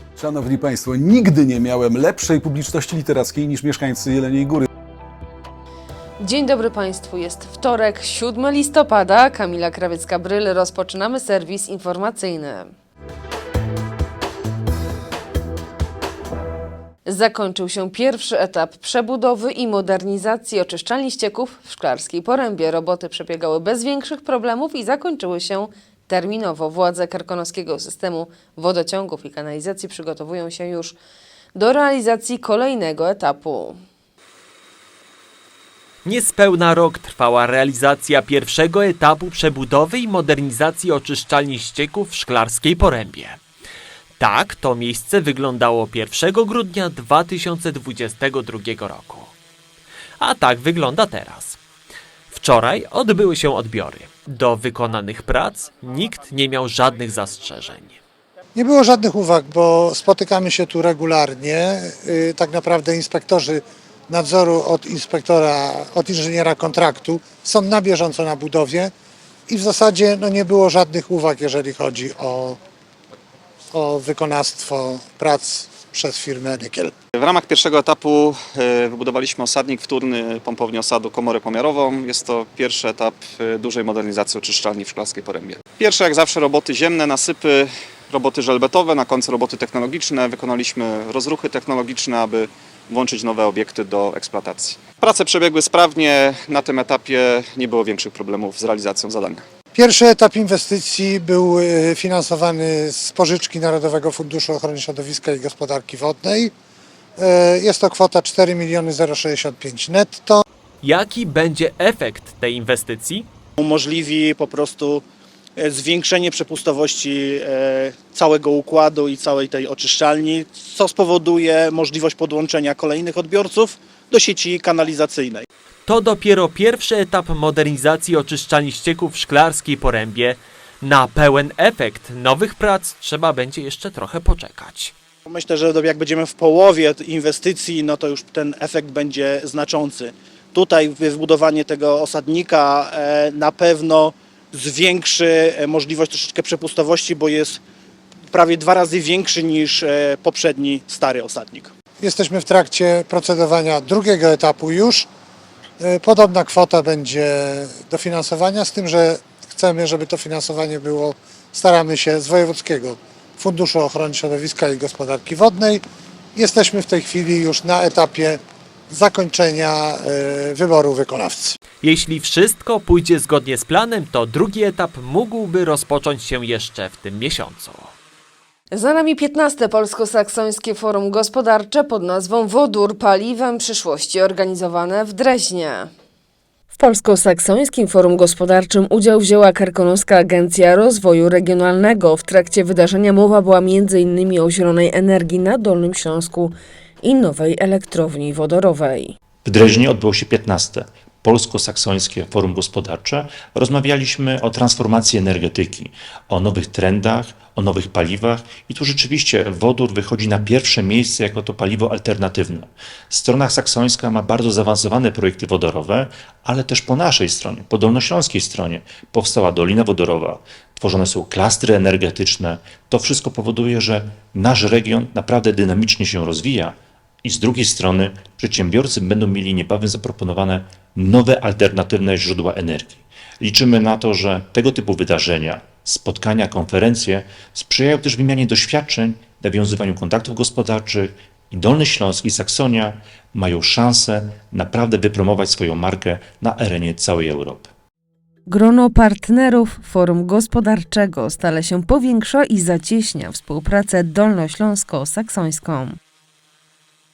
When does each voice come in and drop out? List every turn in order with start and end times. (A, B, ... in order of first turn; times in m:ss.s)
0:00.2-0:04.6 A
0:06.2-0:12.7 B
0:17.0-0:31.0 B
0:31.5-0:33.8 B
0:36.0-0:43.4 C
0:44.2-0:49.3 C
0:50.2-0:51.6 C
0:52.3-0:58.0 C
0:58.5-1:08.9 D
1:09.5-1:12.6 D
1:13.7-1:16.9 D
1:17.1-1:39.4 E
1:39.7-1:46.5 D
1:47.2-1:50.4 D
1:50.8-1:53.3 C
1:53.6-1:55.0 F
1:55.6-2:05.4 F
2:05.8-2:14.9 C
2:15.3-2:27.6 F
2:28.3-2:31.7 F
2:32.0-2:35.1 D
2:35.8-2:45.8 D
2:46.4-2:48.4 D
2:48.9-2:51.6 D
2:51.8-2:57.9 C
2:58.7-3:05.9 B
3:06.7-3:19.1 B
3:19.4-4:07.7 G
4:08.5-4:16.0 B